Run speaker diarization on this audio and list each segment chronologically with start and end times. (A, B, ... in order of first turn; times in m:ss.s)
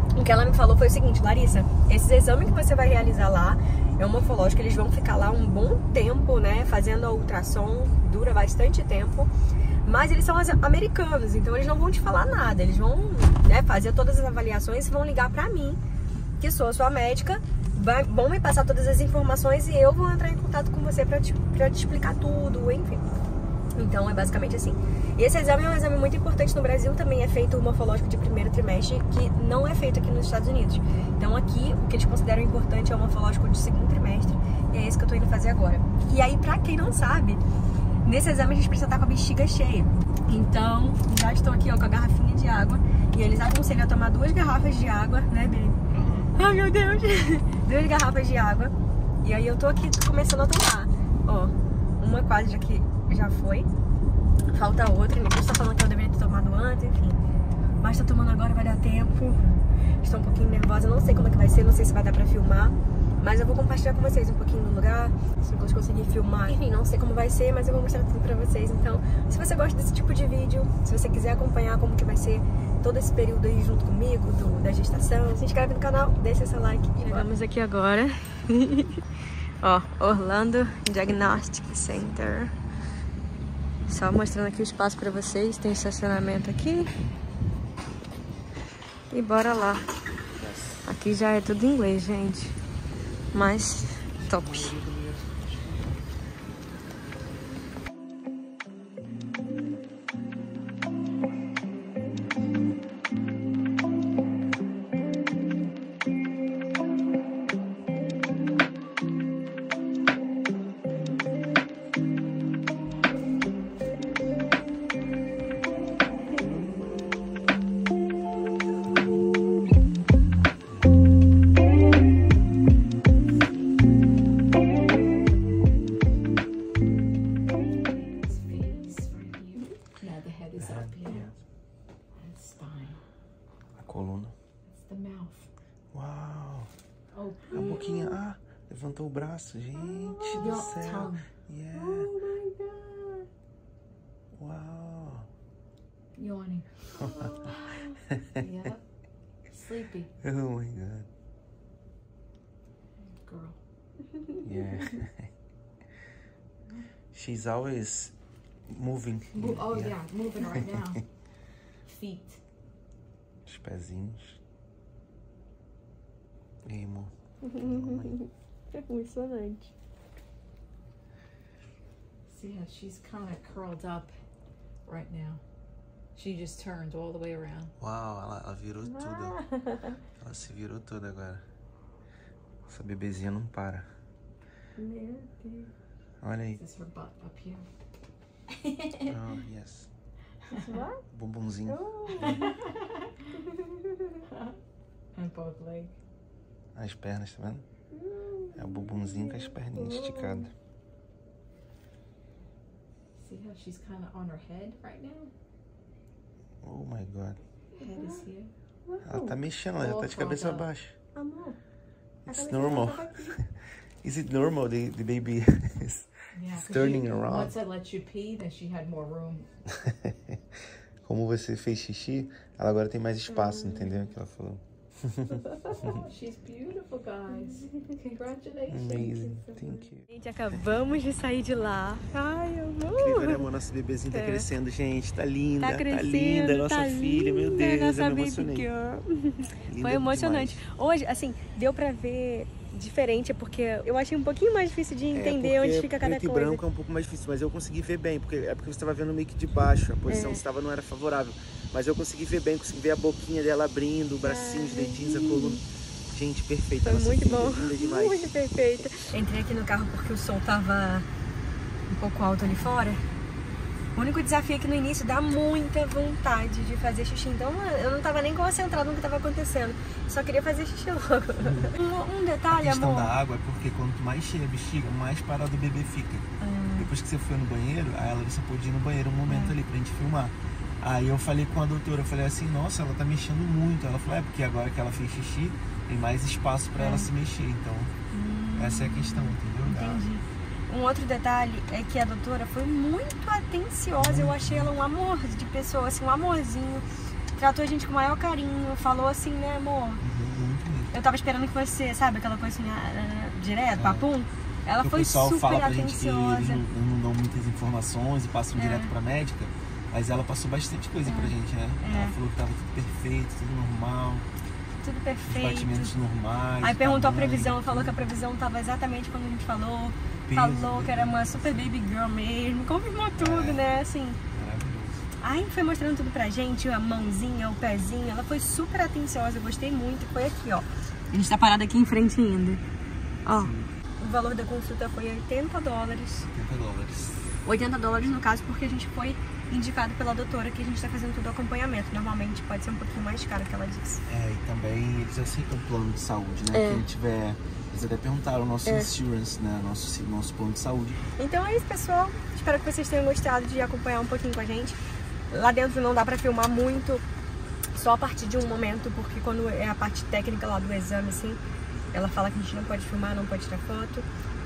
0:00.1-0:09.3 A
0:09.8-0:15.8 A
0:16.4-0:23.1 A
0:23.8-0:37.4 A
0:38.0-0:45.8 A
0:45.9-0:46.4 B
0:46.4-0:53.7 A
0:54.5-0:57.2 A
0:57.8-0:59.4 A
1:00.0-1:19.0 A
1:19.6-1:22.5 A
1:21.1-1:21.6 B
1:23.9-1:26.9 A
1:29.1-1:29.9 A
1:30.3-1:30.9 B
1:30.8-1:32.6 A
1:33.3-1:34.7 A
1:34.2-1:35.9 B
2:07.8-2:11.3 C
2:10.6-2:11.3 B
2:12.2-2:13.0 C
2:13.8-2:14.4 B
2:14.7-2:15.5 C
2:15.9-2:16.7 B
2:17.1-2:17.8 C
2:17.5-2:22.1 B
2:17.5-2:18.2 A
2:20.1-2:20.5 A
2:20.3-2:23.3 C
2:24.3-2:25.3 B
2:26.2-2:28.8 C
2:27.0-2:27.5 B
2:29.5-2:30.1 C
2:30.2-2:31.1 B
2:33.1-2:33.6 C
2:34.4-2:35.3 B
2:37.1-2:38.1 B
2:38.7-2:40.0 B
2:39.3-2:41.1 C
2:41.8-2:42.4 C
2:43.5-2:44.4 B
2:46.7-2:48.2 B
2:47.4-2:49.7 A
2:52.3-2:54.2 C
2:54.9-2:55.4 C
2:56.2-2:57.7 C
2:57.8-2:59.4 B
2:58.8-3:00.0 A
3:00.2-3:01.4 B
3:02.7-3:03.9 B
3:04.8-3:05.7 A
3:06.2-3:06.6 B
3:06.6-3:07.7 C
3:08.5-3:09.1 C
3:09.0-3:09.9 B
3:10.6-3:11.0 A
3:11.1-3:12.4 B
3:11.7-3:12.5 A
3:12.2-3:12.8 C
3:13.3-3:14.0 A
3:14.3-3:14.6 C
3:15.2-3:15.9 C
3:16.8-3:17.6 B
3:18.0-3:20.5 A
3:18.5-3:20.5 B
3:23.2-3:25.3 C
3:26.6-3:27.4 B
3:27.7-3:28.5 C
3:27.8-3:28.3 A
3:28.9-3:29.4 A
3:29.0-3:31.0 B
3:29.8-3:30.7 C
3:31.2-3:31.6 A
3:32.3-3:37.6 B
3:32.3-3:33.4 A
3:36.3-3:39.5 C
3:39.7-3:40.4 B
3:41.0-3:46.0 B
3:43.3-3:44.1 A
3:45.8-3:49.8 C
3:48.7-3:50.0 B
3:50.1-3:53.5 A
3:52.9-3:58.7 B
3:54.1-3:54.5 A
3:55.6-4:06.6 A
3:59.6-4:00.6 B
4:05.1-4:18.4 B
4:10.1-4:10.4 A
4:14.2-4:15.6 A
4:16.8-4:21.1 A
4:21.9-4:23.0 A
4:24.0-4:33.1 A
4:31.4-4:31.7 B
4:32.5-4:47.9 B
4:36.4-4:36.9 A
4:39.3-4:39.6 A
4:46.8-4:47.1 A
4:48.1-4:56.8 A
4:48.6-4:50.0 B
4:54.0-4:54.7 B
4:57.4-5:00.0 A
5:00.0-5:00.9 B
5:00.9-5:06.6 A
5:03.8-5:04.1 B
5:04.8-5:14.3 B
5:08.6-5:08.9 A
5:11.1-5:12.2 A
5:14.8-5:16.0 A
5:15.3-5:18.1 B
5:16.6-5:24.2 A
5:20.3-5:21.8 B
5:23.2-5:23.7 B
5:24.3-5:25.0 B
5:25.2-5:32.6 A
5:33.2-5:36.3 A
5:33.3-5:33.7 B
5:36.3-5:37.3 B
5:37.4-5:44.0 A
5:44.1-5:51.0 B
5:46.5-5:46.8 A
5:48.6-5:48.9 A
5:51.2-5:54.8 A
5:55.3-5:57.0 A
5:57.7-6:01.4 A
6:01.9-6:04.1 A